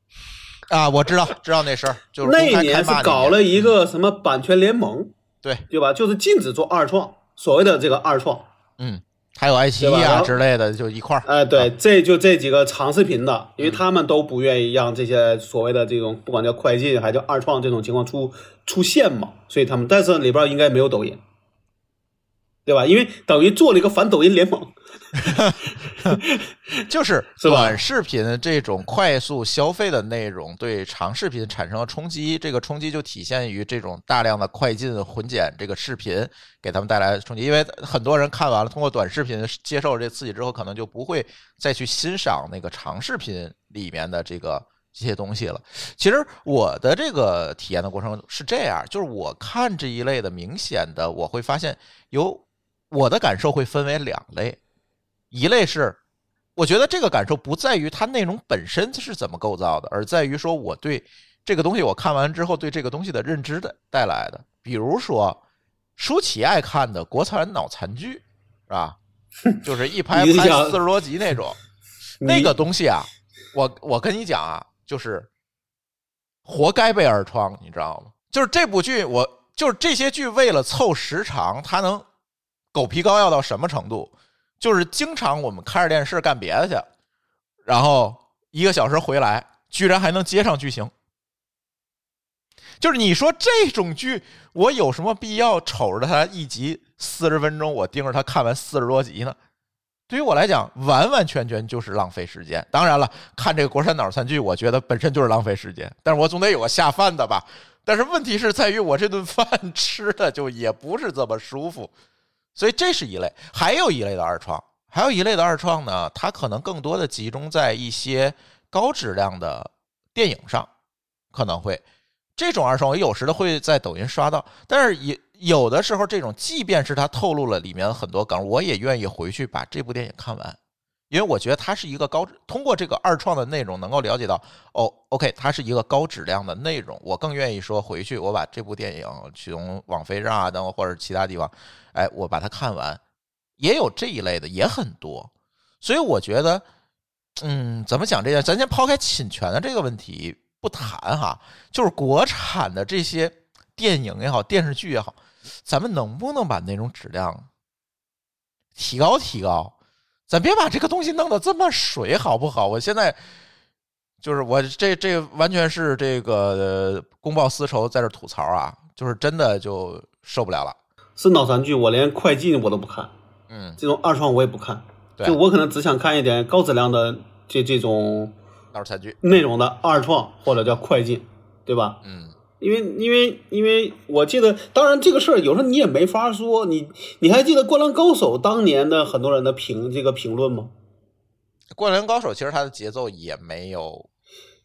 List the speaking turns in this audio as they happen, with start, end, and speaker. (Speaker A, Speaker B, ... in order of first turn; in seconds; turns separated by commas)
Speaker A: 0.7-3.7, Speaker B: 2.2-5.1, Speaker B: 5.7-8.5, Speaker A: 8.8-11.7, Speaker B: 9.8-10.4, Speaker B: 11.2-21.2, Speaker B: 22.6-26.5, Speaker A: 25.3-26.2, Speaker A: 26.9-54.6, Speaker B: 27.4-27.8, Speaker A: 55.3-56.0, Speaker A: 56.5-65.4, Speaker A: 66.0-69.0, Speaker A: 69.6-71.6, Speaker B: 70.1-70.8, Speaker B: 72.2-72.5, Speaker A: 72.2-75.3, Speaker A: 76.4-82.0, Speaker A: 82.7-86.9, Speaker A: 87.7-90.9, Speaker A: 92.8-99.3, Speaker A: 100.1-111.9, Speaker A: 112.5-120.7, Speaker A: 121.3-121.8, Speaker A: 122.4-130.6, Speaker A: 131.1-143.0, Speaker A: 143.6-145.3, Speaker A: 145.8-146.6, Speaker A: 147.4-157.5, Speaker A: 158.8-159.7, Speaker A: 160.3-163.2, Speaker A: 164.2-170.8, Speaker B: 171.2-173.1, Speaker A: 173.5-173.8, Speaker B: 173.8-178.3, Speaker A: 178.7-179.2, Speaker B: 179.2-182.0, Speaker A: 182.0-182.3, Speaker B: 182.6-190.7, Speaker A: 191.7-194.1